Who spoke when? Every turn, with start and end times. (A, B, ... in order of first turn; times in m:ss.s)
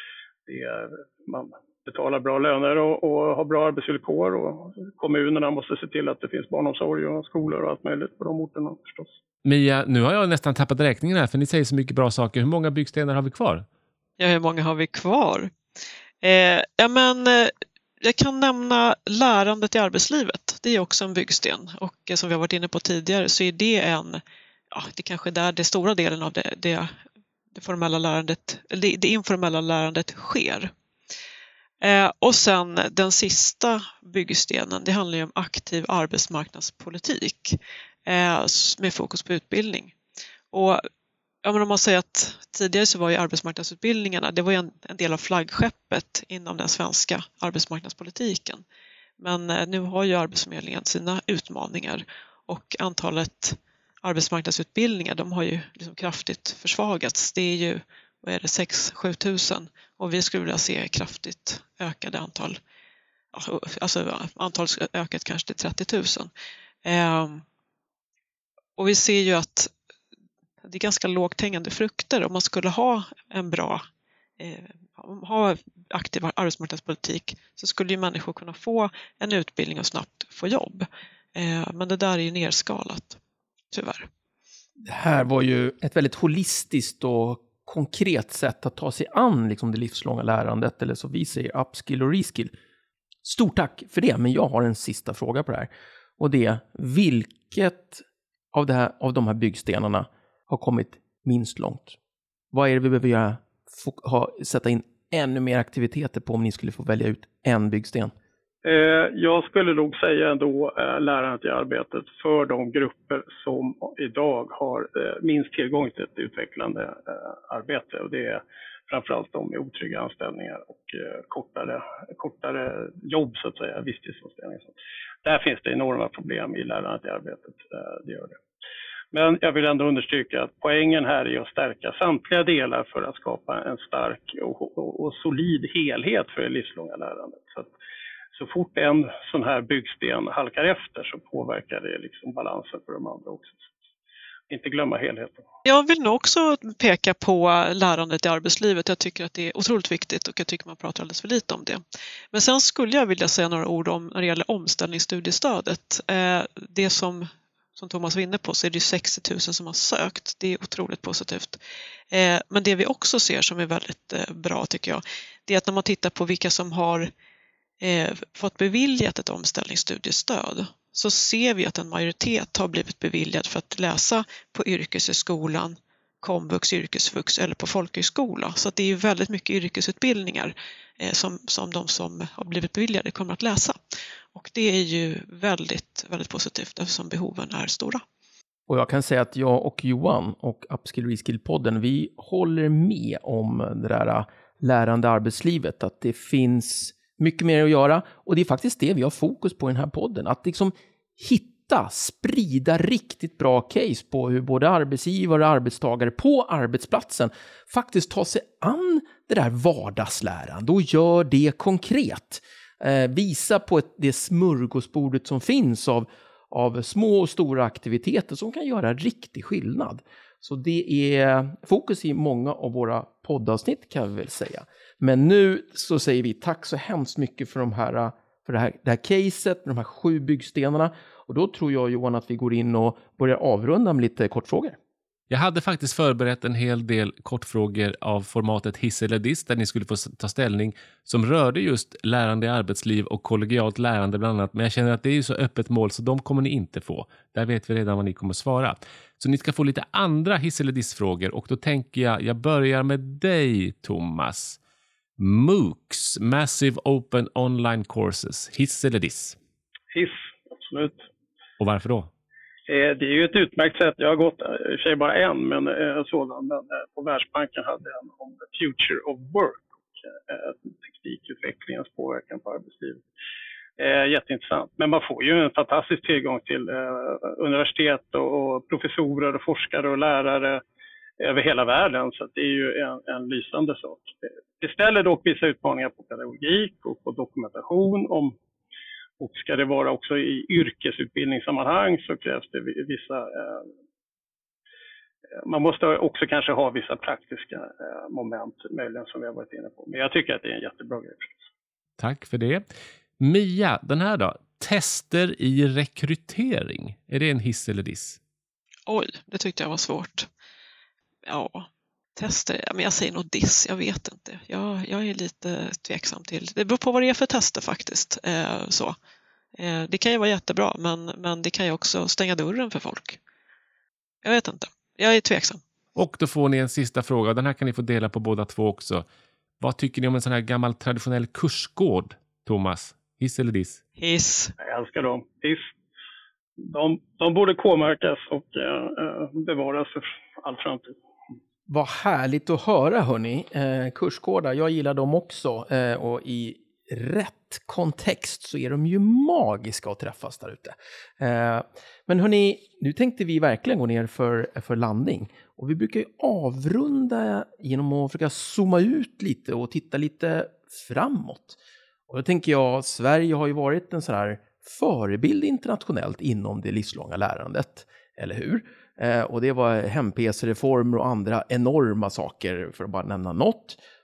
0:00.5-0:09.1 A
0:09.4-0:13.7 B
0:14.2-0:15.5 C
0:16.2-0:24.2 C
0:24.7-0:26.9 C
0:27.5-0:30.7 C
0:31.8-0:40.0 C
0:40.5-0:40.8 C
0:41.4-0:48.6 C
0:49.2-1:02.6 C
1:03.3-1:06.3 C
1:06.8-1:07.4 C
1:08.8-1:09.7 C
1:10.6-1:13.8 C
1:14.4-1:23.2 C
1:23.7-1:24.1 C
1:24.8-1:32.5 D
1:33.2-1:42.0 D
1:42.5-1:48.1 D
1:48.6-2:04.7 A
2:05.2-2:08.4 A
2:09.1-2:17.7 A
2:18.4-2:23.7 A
2:24.5-2:25.4 A
2:25.6-2:31.8 C
2:32.3-2:41.6 C
2:42.1-2:47.1 C
2:47.8-3:03.8 C
3:04.3-3:08.0 C
3:08.7-3:54.8 D
3:55.3-4:14.6 B
4:15.2-4:19.4 B
4:19.9-4:21.0 A
4:21.6-4:22.1 B
4:22.7-4:33.0 A
4:33.8-4:40.6 A
4:41.2-4:48.4 A
4:49.2-4:53.6 A
4:55.4-5:01.4 A
5:02.0-5:02.6 B
5:03.2-5:08.2 B
5:08.9-5:10.3 C
5:11.3-5:19.0 C
5:19.6-5:23.2 C
5:24.2-5:25.6 C
5:26.0-5:29.0 B
5:29.6-5:33.8 B
5:34.0-5:34.5 C
5:34.6-5:35.7 A
5:36.6-5:41.0 A
5:41.7-6:13.8 D